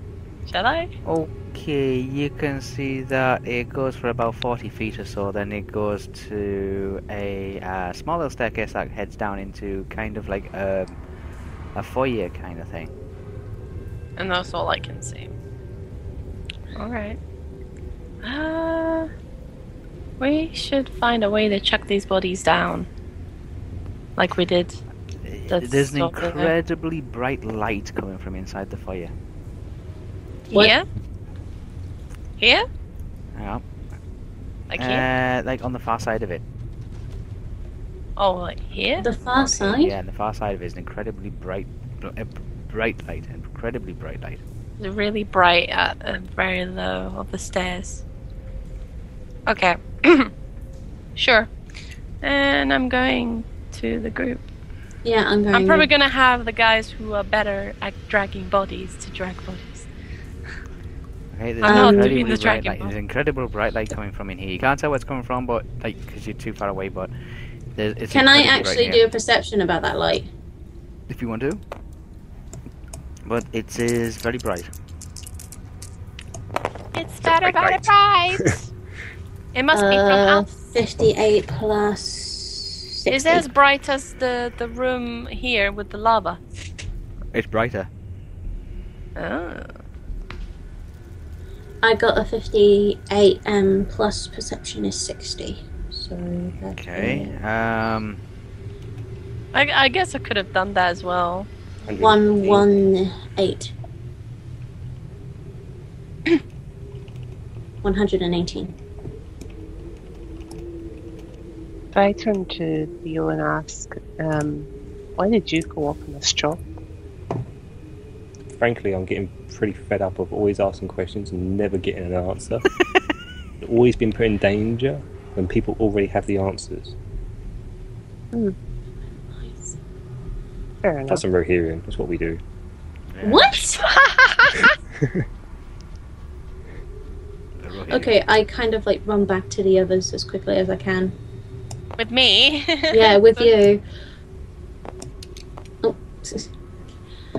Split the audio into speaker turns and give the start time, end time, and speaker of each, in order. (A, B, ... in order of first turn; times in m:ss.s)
0:00.5-0:00.9 A
0:01.0-0:11.0 B
0:11.8-0:12.9 B
0:14.2-0:15.3 A
0:16.8-0:17.2 A
0:18.2-0:19.1 A
0:20.2-0:22.9 A
0:24.2-0:24.8 A
0:25.2-0:29.1 B
0:25.5-0:26.5 A
0:30.5-0:30.8 A
0:32.4-0:32.7 A
0:33.4-0:33.6 B
0:34.7-0:35.1 A
0:34.7-0:36.4 B
0:38.2-0:39.1 A
0:39.0-0:40.0 C
0:39.2-0:44.4 B
0:44.8-0:48.0 A
0:49.5-0:50.3 A
0:51.2-0:51.5 A
0:52.2-0:54.4 A
0:55.0-0:55.9 C
0:55.5-0:59.9 A
1:01.3-1:07.1 B
1:01.6-1:02.9 A
1:01.6-1:02.2 C
1:07.8-1:09.0 B
1:08.1-1:10.3 C
1:11.1-1:11.6 B
1:13.2-1:14.7 B
1:16.9-1:18.7 A
1:17.3-1:17.8 D
1:19.5-1:20.5 A
1:19.7-1:23.5 C
1:23.1-1:26.4 A
1:27.3-1:27.9 B
1:29.2-1:29.7 A
1:31.8-1:37.4 C
1:36.7-1:38.2 B
1:39.5-1:41.5 A
1:41.9-1:42.7 D
1:42.0-1:43.7 C
1:47.8-1:48.7 C
1:51.9-1:56.6 E
1:58.6-2:02.7 D
2:03.6-2:07.0 D
2:09.3-2:09.8 C
2:10.8-2:11.2 E
2:11.1-2:12.4 D
2:13.1-2:13.6 B
2:13.2-2:13.8 C
2:13.7-2:14.8 A
2:17.6-2:18.1 B
2:17.9-2:21.2 C
2:22.0-2:23.5 A
2:22.9-2:23.8 C
2:25.8-2:26.5 C